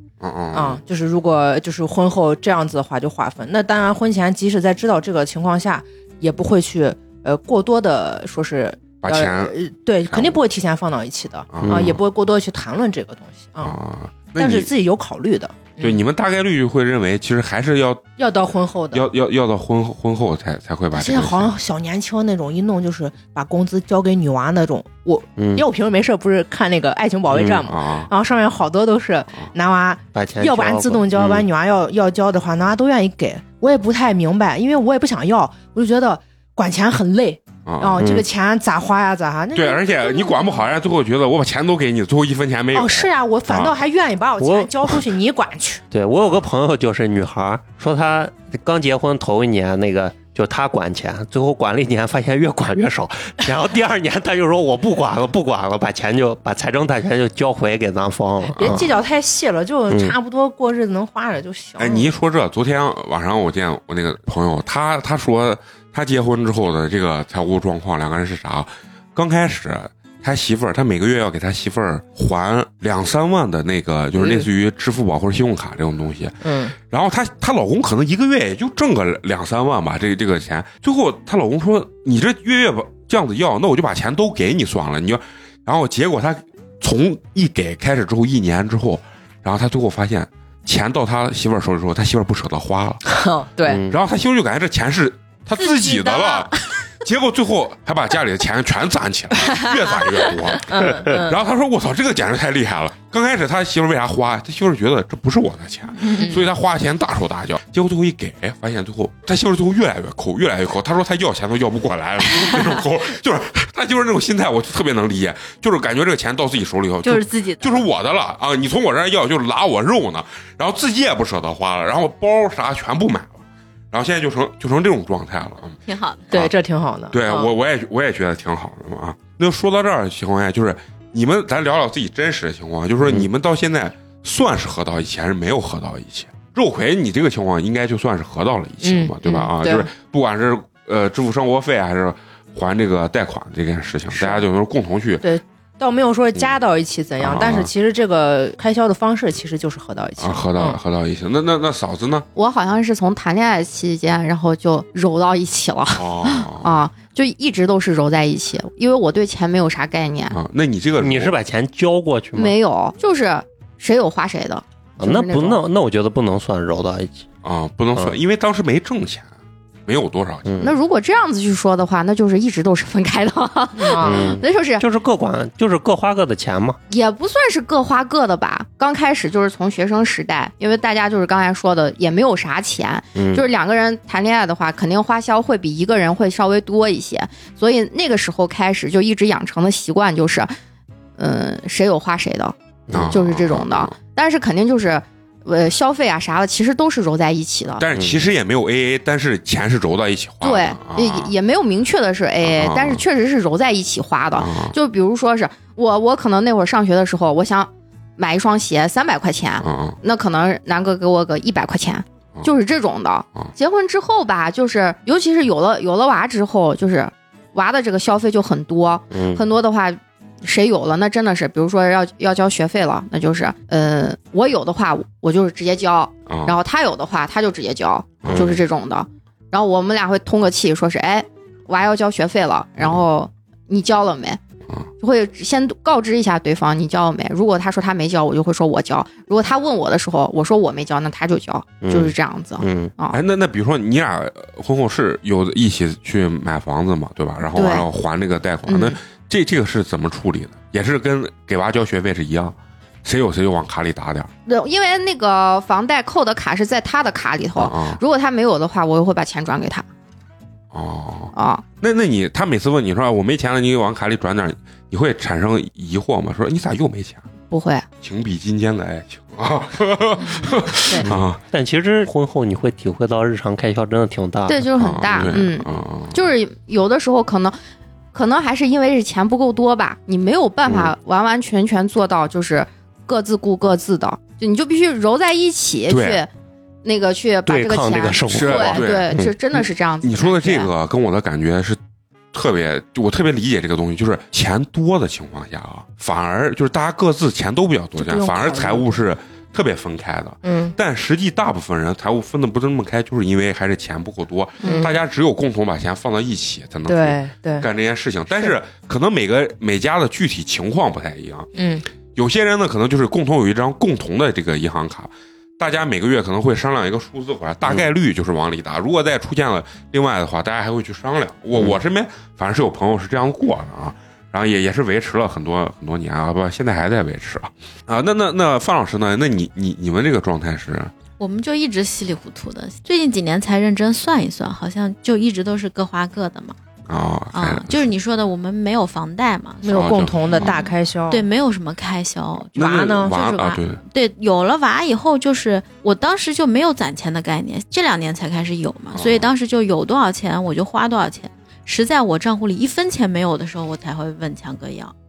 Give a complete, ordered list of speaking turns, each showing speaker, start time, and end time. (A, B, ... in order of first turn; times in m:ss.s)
0:00.2-0:00.8 A
0:00.5-0:13.8 B
0:09.0-0:09.5 A
0:10.1-0:10.4 A
0:11.5-0:12.0 A
0:11.6-0:12.0 C
0:13.6-0:14.7 A
0:14.4-0:16.0 B
0:15.8-0:18.0 A
0:18.2-0:19.1 B
0:18.9-0:21.5 A
0:20.9-0:40.6 B
0:25.4-0:25.6 C
0:27.3-0:27.6 C
0:27.7-0:28.1 A
0:30.1-0:31.4 C
0:37.6-0:38.0 A
0:38.0-0:38.3 C
0:39.5-0:43.7 A
0:42.7-0:45.8 B
0:44.4-0:44.7 C
0:45.9-0:58.9 C
0:58.5-1:02.1 B
0:59.9-1:00.1 C
1:01.8-1:33.0 A
1:14.2-1:14.5 B
1:16.4-1:16.7 B
1:33.0-1:33.8 B
1:33.7-1:34.0 C
1:33.9-2:05.8 A
1:35.6-1:36.5 D
1:40.7-1:41.4 B
1:46.1-1:46.4 B
1:57.0-1:57.8 D
2:05.9-2:06.3 D
2:06.3-2:07.5 B
2:07.1-2:25.2 A
2:18.8-2:19.9 B
2:24.1-2:24.4 B
2:25.2-2:30.8 B
2:27.2-2:27.7 A
2:30.2-2:32.3 A
2:32.3-2:40.4 E
2:36.0-2:36.8 A
2:40.3-2:41.3 A
2:41.0-2:42.6 C
2:42.3-2:45.6 E
2:45.0-2:47.2 C
2:47.4-2:49.3 A
2:49.9-2:50.6 A
2:50.4-2:50.7 C
2:50.6-2:54.8 E
2:53.8-2:54.4 B
2:54.0-2:56.8 C
2:56.9-3:10.5 E
3:03.1-3:03.4 C
3:11.2-3:12.6 E
3:12.9-3:13.2 C
3:12.9-3:13.9 A
3:13.1-3:17.8 E
3:17.8-3:21.3 A
3:20.4-3:54.4 E
3:22.4-3:23.0 A
3:24.3-3:24.7 A
3:29.6-3:30.0 A
3:39.1-3:39.4 C
3:46.3-3:46.6 A
3:48.2-3:48.6 A
3:48.3-3:48.6 C
3:55.0-4:03.2 E
4:01.8-4:02.9 C
4:03.1-4:14.3 A
4:07.5-4:07.9 E
4:08.7-4:09.0 E
4:14.4-4:19.8 E
4:17.6-4:18.0 A
4:20.7-4:27.2 A
4:21.3-4:21.6 E
4:27.5-4:27.8 E
4:28.0-4:31.4 A
4:30.3-4:31.1 E
4:31.0-4:35.3 C
4:34.4-4:37.6 E
4:34.8-4:36.2 A
4:38.1-4:46.3 E
4:40.7-4:40.9 A
4:45.9-4:46.2 A
4:46.8-4:50.7 E
4:47.4-4:49.3 C
4:48.3-4:51.8 A
4:52.3-5:11.5 A
4:58.0-4:59.0 B
5:00.4-5:00.7 B
5:04.6-5:04.9 E
5:04.6-5:04.9 B
5:06.9-5:07.7 B
5:11.5-5:11.8 B
5:12.1-5:30.9 A
5:31.2-5:36.6 D
5:36.9-5:37.9 A
5:37.3-5:54.9 D
5:39.6-5:41.2 B
5:39.7-5:40.6 A
5:42.6-5:43.2 B
5:42.6-5:43.8 A
5:48.9-5:49.3 A